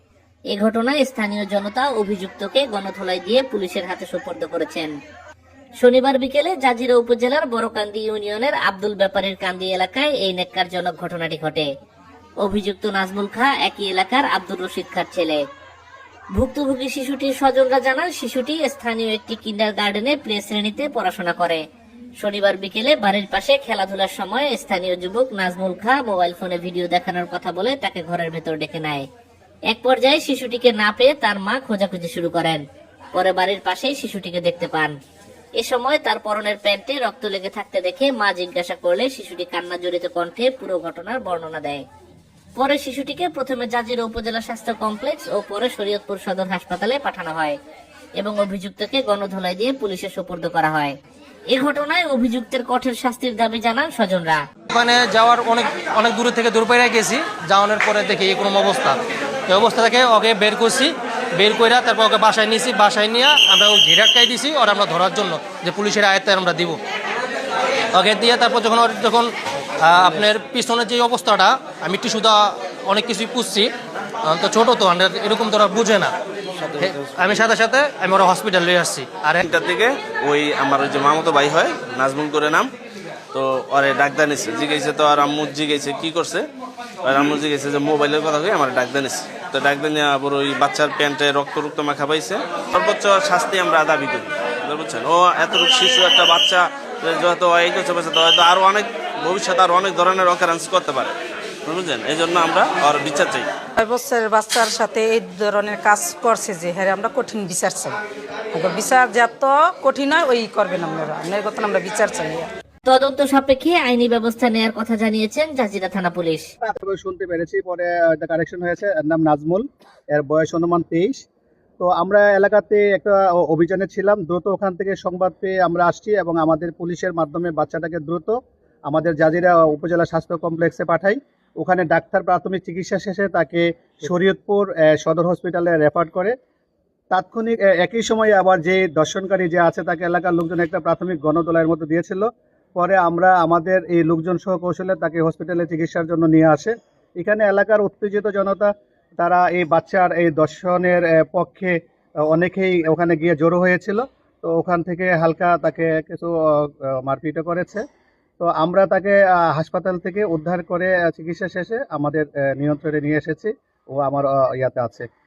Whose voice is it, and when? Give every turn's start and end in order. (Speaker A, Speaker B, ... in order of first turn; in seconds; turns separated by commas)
Speaker A: 0.5-4.9, Speaker A: 5.8-11.7, Speaker A: 12.4-15.4, Speaker A: 16.4-21.6, Speaker A: 22.2-29.1, Speaker A: 29.7-32.6, Speaker A: 33.1-35.0, Speaker A: 35.6-41.8, Speaker A: 42.6-47.6, Speaker A: 48.2-51.0, Speaker A: 51.5-54.4, Speaker B: 54.7-66.8, Speaker B: 67.9-69.3, Speaker B: 69.8-73.7, Speaker B: 74.2-76.2, Speaker C: 76.6-77.0, Speaker B: 76.8-79.4, Speaker C: 79.4-82.7, Speaker C: 83.3-86.5, Speaker C: 87.0-101.1, Speaker C: 101.7-103.5, Speaker D: 103.8-108.0, Speaker D: 108.5-112.5, Speaker A: 112.9-116.5, Speaker E: 116.6-121.2, Speaker E: 121.8-128.3, Speaker E: 128.9-136.3, Speaker E: 137.1-151.8, Speaker E: 152.3-157.8, Speaker E: 158.4-165.1